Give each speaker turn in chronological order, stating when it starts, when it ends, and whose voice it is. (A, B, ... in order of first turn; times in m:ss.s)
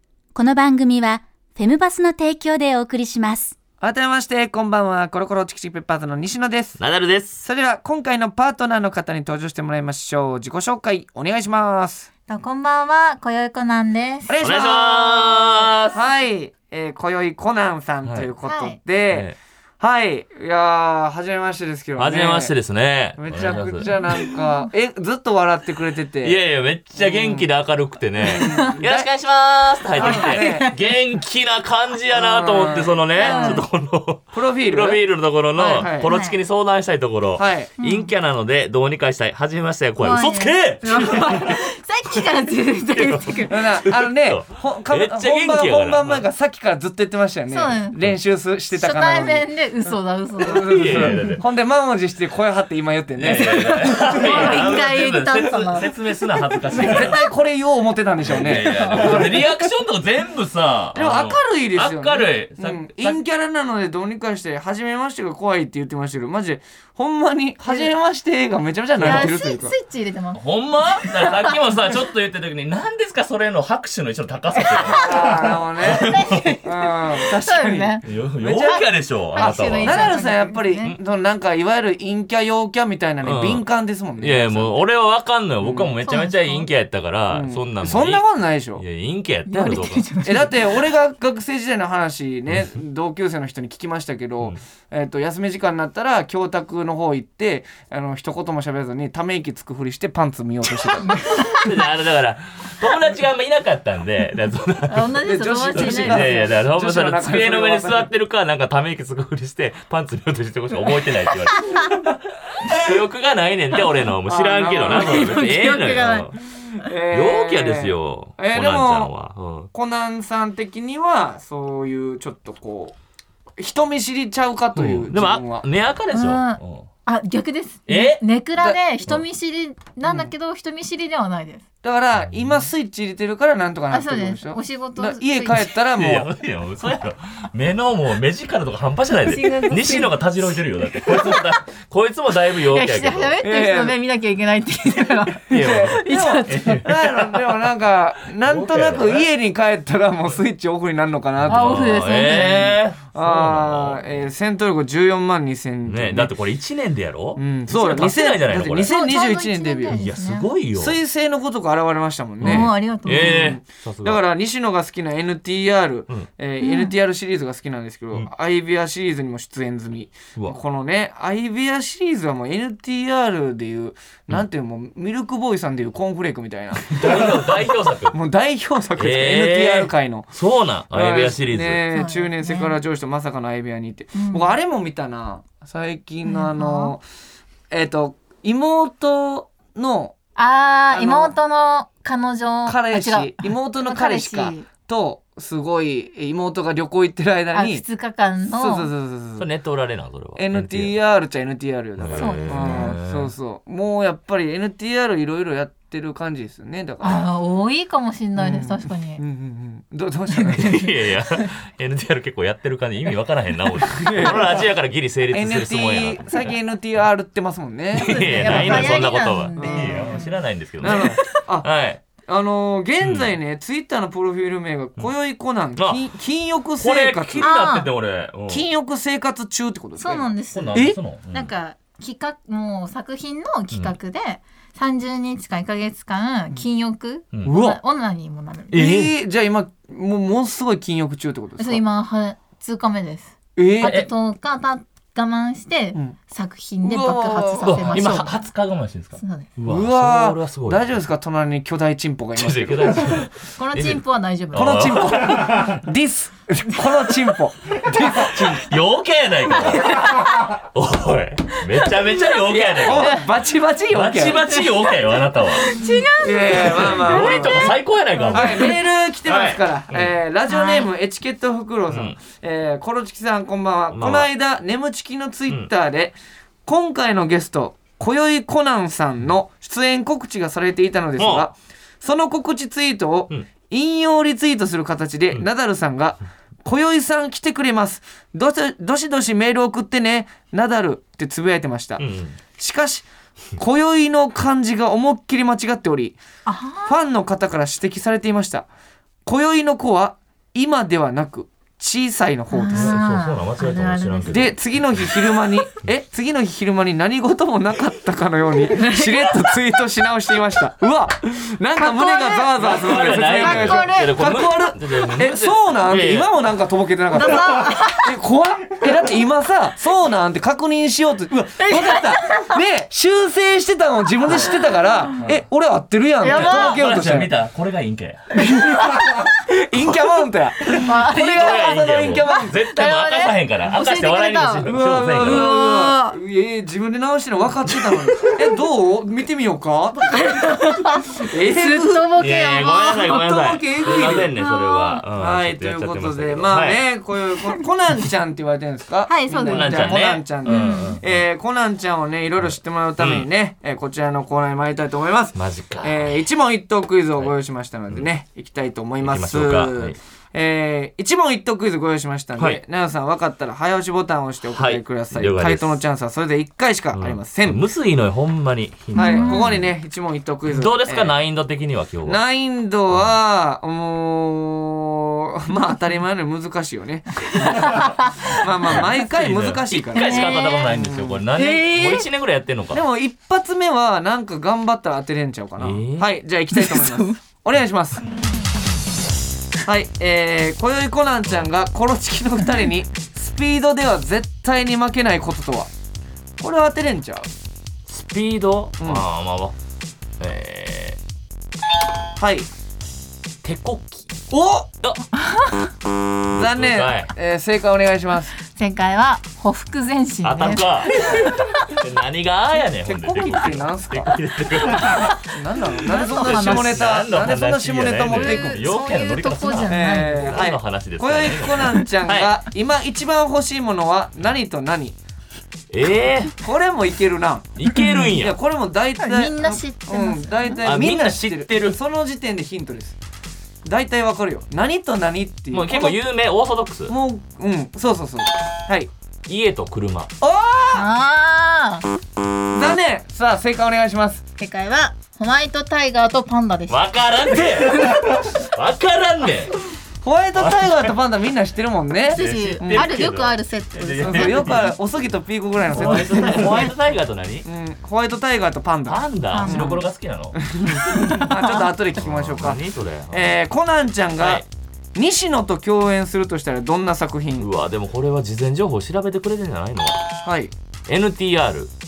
0:00.3-0:03.5 A
0:03.8-0:06.8 B
0:06.8-0:07.4 C
0:07.4-0:12.1 B
0:12.3-0:14.3 D
0:14.3-0:22.5 B
0:14.4-0:16.0 C
0:18.4-0:18.8 D
0:19.1-0:19.4 C
0:22.0-0:23.9 C
0:23.2-0:26.4 B
0:24.0-0:24.4 D
0:26.2-0:41.6 C
0:26.9-0:27.4 B
0:28.2-0:29.1 B
0:30.0-0:30.7 B
0:30.0-0:30.7 D
0:32.1-0:33.6 B
0:33.2-0:33.6 D
0:34.3-0:36.1 B
0:36.0-0:36.4 D
0:37.4-0:37.7 B
0:37.8-0:38.1 D
0:40.0-0:43.6 D
0:42.9-0:46.3 C
0:43.5-0:54.6 B
0:47.5-0:48.0 D
0:48.7-0:51.2 D
0:50.5-0:51.4 C
0:53.2-0:57.2 C
0:53.9-0:55.9 D
0:56.7-0:59.4 B
0:58.2-1:03.2 C
1:00.9-1:09.7 B
1:07.6-1:07.9 D
1:09.0-1:09.3 C
1:09.0-1:10.4 D
1:10.3-1:16.6 C
1:11.0-1:11.6 D
1:14.5-1:18.0 D
1:15.0-1:18.8 B
1:18.0-1:20.2 C
1:19.3-1:20.9 D
1:19.8-1:24.8 B
1:23.2-1:23.6 C
1:24.2-1:28.2 C
1:25.6-1:25.9 B
1:26.0-1:26.7 D
1:27.3-1:28.8 B
1:28.8-1:30.2 C
1:29.5-1:30.8 D
1:30.2-1:41.3 B
1:40.8-1:56.4 C
1:41.3-1:41.6 D
1:44.9-1:46.5 D
1:45.2-1:48.1 B
1:54.2-1:55.4 B
1:54.8-1:56.3 D
1:56.7-1:59.1 B
1:57.1-1:59.7 C
1:59.7-2:03.0 B
2:03.6-2:05.6 B
2:04.7-2:06.9 C
2:06.1-2:11.6 D
2:07.9-2:08.2 C
2:10.0-2:10.3 B
2:11.8-2:16.3 B
2:12.2-2:12.7 C
2:13.9-2:15.7 D
2:15.9-2:23.4 C
2:19.2-2:20.2 D
2:21.0-2:21.4 D
2:22.7-2:26.9 D
2:23.4-2:23.9 B
2:25.5-2:27.5 C
2:25.5-2:32.5 B
2:28.4-2:29.2 C
2:31.4-2:34.3 C
2:31.5-2:32.8 D
2:33.1-2:36.3 B
2:35.8-2:39.0 C
2:37.4-2:40.0 B
2:38.8-2:40.5 D
2:39.9-2:41.0 C
2:40.7-3:00.3 B
2:42.4-2:44.2 C
2:42.4-2:43.6 D
2:46.6-2:46.9 D
2:56.9-2:58.2 C
2:59.0-3:01.8 C
3:00.9-3:07.0 B
3:01.9-3:02.8 D
3:04.1-3:04.5 D
3:06.2-3:06.9 D
3:07.7-3:10.2 B
3:10.4-3:14.7 D
3:10.9-3:11.3 B
3:12.6-3:17.8 B
3:17.5-3:18.9 D
3:18.5-3:19.4 B
3:19.4-3:21.0 C
3:20.4-3:27.2 B
3:22.0-3:23.3 C
3:22.2-3:23.0 D
3:27.0-3:29.2 D
3:28.4-3:30.8 B
3:30.3-3:31.5 D
3:30.6-3:36.5 C
3:33.9-3:34.6 B
3:35.3-3:40.2 B
3:37.9-3:40.4 D
3:37.9-3:42.0 C
3:40.8-3:47.5 B
3:40.9-3:41.3 D
3:43.0-3:43.3 C
3:45.8-3:46.0 C
3:46.8-3:48.6 C
3:47.4-3:47.9 D
3:48.5-3:51.0 B
3:50.0-3:58.8 D
3:50.5-3:51.5 C
3:53.7-3:54.0 C
3:57.4-3:57.8 B
3:58.7-3:59.1 C
3:58.7-4:01.8 B
4:01.6-4:08.4 D
4:03.6-4:03.9 B
4:03.8-4:04.1 C
4:06.8-4:08.1 B
4:07.6-4:10.9 C
4:09.2-4:09.5 D
4:09.6-4:13.2 B
4:12.4-4:15.8 C
4:13.6-4:15.2 D
4:14.5-4:18.7 B
4:17.9-4:23.2 C
4:19.6-4:20.5 D
4:22.4-4:24.4 B
4:23.9-4:25.8 C
4:25.3-4:28.8 D
4:26.2-4:27.7 B
4:26.5-4:30.2 C
4:28.3-4:52.0 B
4:30.5-4:30.9 D
4:31.9-4:32.2 C
4:33.9-4:34.3 C
4:41.2-4:41.5 C
4:52.0-4:52.4 C
4:52.6-4:56.2 B
4:56.4-4:57.0 D
4:56.8-4:58.7 B
4:59.2-5:03.0 B
5:02.5-5:04.5 D
5:02.7-5:05.1 C
5:04.3-5:27.3 B
5:08.7-5:09.5 D
5:11.8-5:14.2 D
5:12.6-5:16.4 C
5:17.1-5:18.2 D
5:21.6-5:22.6 D
5:26.2-5:26.8 D
5:26.3-5:28.2 C
5:28.4-5:32.6 B
5:30.8-5:31.7 D
5:31.3-5:35.5 C
5:32.2-5:34.7 D
5:34.6-5:40.3 B
5:35.2-5:36.2 D
5:37.7-5:38.3 C
5:40.0-5:43.2 D
5:41.1-5:42.1 B
5:42.2-5:46.8 C
5:43.1-5:44.4 B
5:44.0-5:45.0 D
5:45.2-6:07.6 B
5:49.1-5:51.0 D
5:49.4-5:51.2 C
5:52.4-5:53.3 C
5:55.3-5:56.2 C
5:59.0-6:00.0 C
6:04.5-6:05.8 C
6:06.9-6:09.7 C
6:08.9-6:09.6 D
6:08.9-6:11.1 B
6:10.5-6:12.2 C
6:12.0-6:21.2 B
6:17.4-6:18.3 D
6:18.7-6:22.8 C
6:19.9-6:20.8 D
6:21.4-6:22.1 D
6:22.7-6:28.0 B
6:25.6-6:26.1 C
6:26.5-6:27.2 D
6:29.6-6:35.7 B
6:36.4-6:37.3 B
6:37.9-6:39.5 C
6:38.8-6:39.0 B
6:40.2-6:41.0 C
6:42.2-6:42.5 B
6:43.4-6:44.1 C
6:44.3-6:44.7 B
6:45.3-6:45.6 D
6:46.3-6:47.1 C
6:46.3-6:48.3 B
6:48.4-6:51.8 D
6:50.2-6:55.2 C
6:52.7-6:54.2 B
6:54.9-6:55.2 D
6:55.3-6:58.6 B
6:55.8-6:56.8 D
6:55.9-7:02.3 C
6:58.0-7:00.4 D
6:59.7-7:05.0 B
7:05.7-7:06.3 C
7:06.4-7:07.5 B
7:07.5-7:08.4 C
7:08.1-7:13.0 B
7:09.0-7:10.6 D
7:10.6-7:11.8 C
7:13.6-7:16.0 B
7:15.5-7:16.9 C
7:16.9-7:18.9 B
7:19.2-7:20.1 C
7:20.2-7:20.9 B
7:20.7-7:21.9 D
7:22.5-7:24.2 B
7:24.4-7:26.8 D
7:26.7-7:29.6 C
7:27.4-7:28.0 D
7:30.0-7:32.9 B
7:30.4-7:30.9 C
7:32.1-7:34.7 D
7:32.1-7:34.8 C
7:34.0-7:36.7 B
7:35.7-7:37.5 C
7:35.9-7:36.4 D
7:37.4-7:39.8 B
7:38.9-7:40.4 C
7:39.3-7:39.8 D
7:40.3-7:44.4 B
7:40.8-7:41.7 D
7:41.9-7:43.3 C
7:44.2-7:44.4 C
7:44.9-7:47.5 B
7:47.4-7:50.1 C
7:50.2-7:50.5 B
7:50.8-7:51.7 C